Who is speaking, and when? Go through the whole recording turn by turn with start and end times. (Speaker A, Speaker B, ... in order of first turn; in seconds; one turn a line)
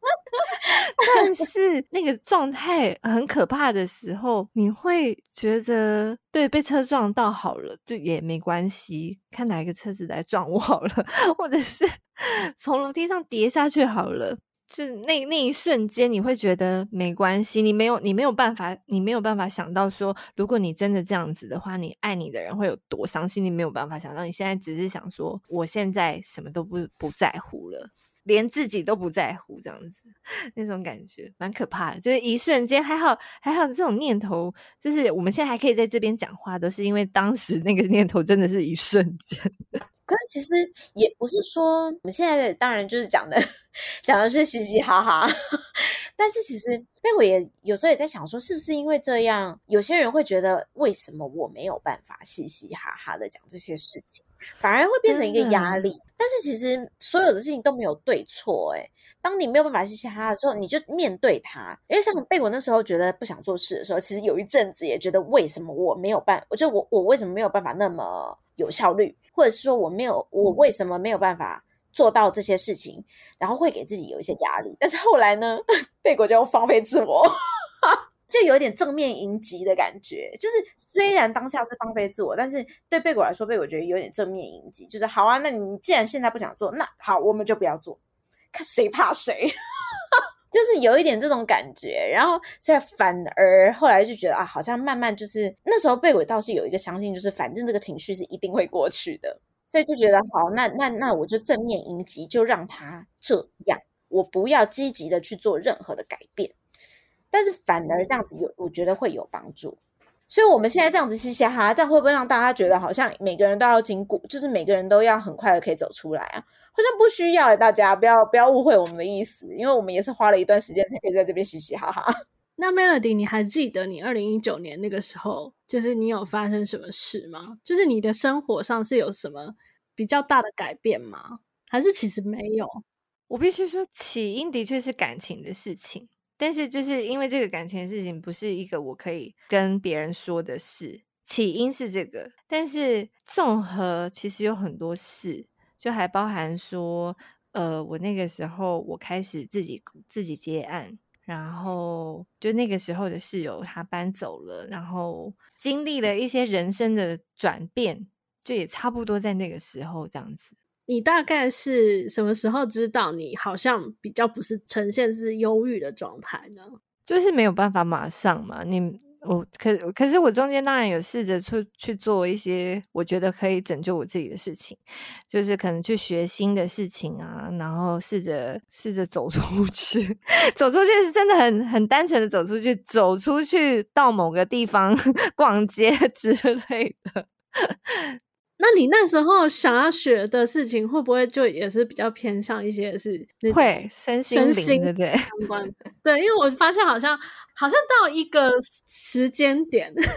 Speaker A: 0.4-1.4
Speaker B: 0.7-39.5
Speaker A: 40.1-43.4
Speaker A: 44.0-77.3
Speaker B: 55.0-55.8
Speaker A: 77.8-88.0
Speaker A: 88.5-89.5
Speaker A: 90.5-106.5
Speaker A: 107.3-122.1
Speaker C: 122.6-132.8
Speaker B: 133.3-160.5
Speaker C: 160.9-166.8
Speaker B: 167.1-188.2
Speaker C: 188.6-200.0
Speaker B: 193.5-195.3